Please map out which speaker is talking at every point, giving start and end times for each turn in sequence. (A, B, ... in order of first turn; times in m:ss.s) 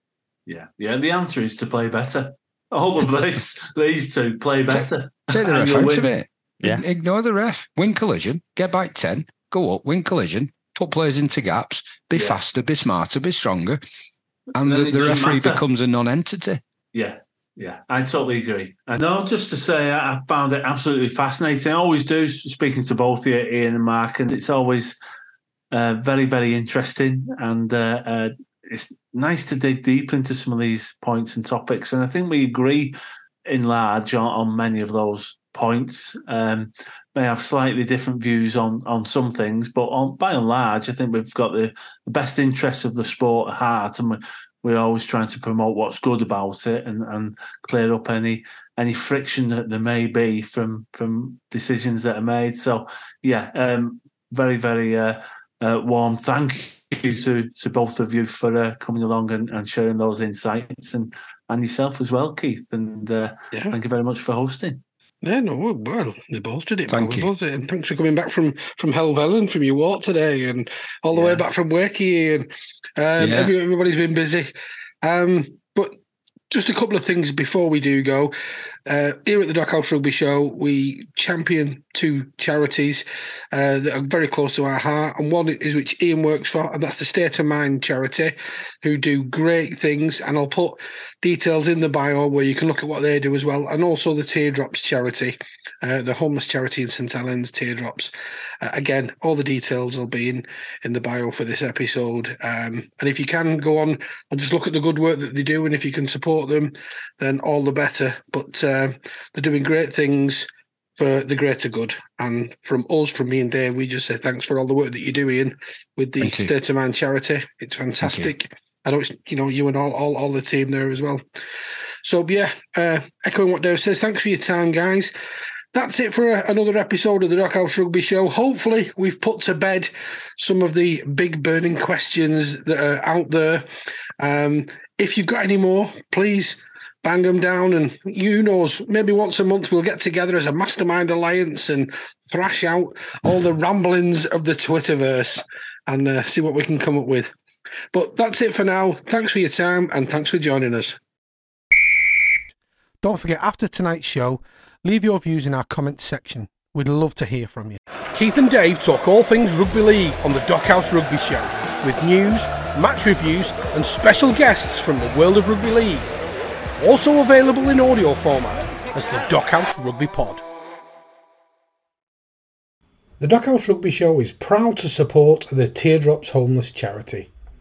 0:00.5-0:06.1 A
0:04.7-0:13.8 B
0:14.6-0:15.6 A
0:14.6-0:16.6 B
0:16.9-0:25.0 A
0:25.7-1:04.8 A
1:05.2-1:16.0 C
1:06.9-1:07.3 B
1:11.1-1:11.4 A
1:13.2-1:13.5 B
1:16.5-1:18.3 C
1:18.9-2:01.2 C
1:56.2-1:56.5 B
1:58.0-1:58.3 B
2:02.0-2:05.1 C
2:05.7-2:13.7 C
2:14.2-2:27.3 C
2:27.9-2:31.0 C
2:33.0-2:46.1 C
2:46.8-2:50.4 C
2:53.2-2:57.3 C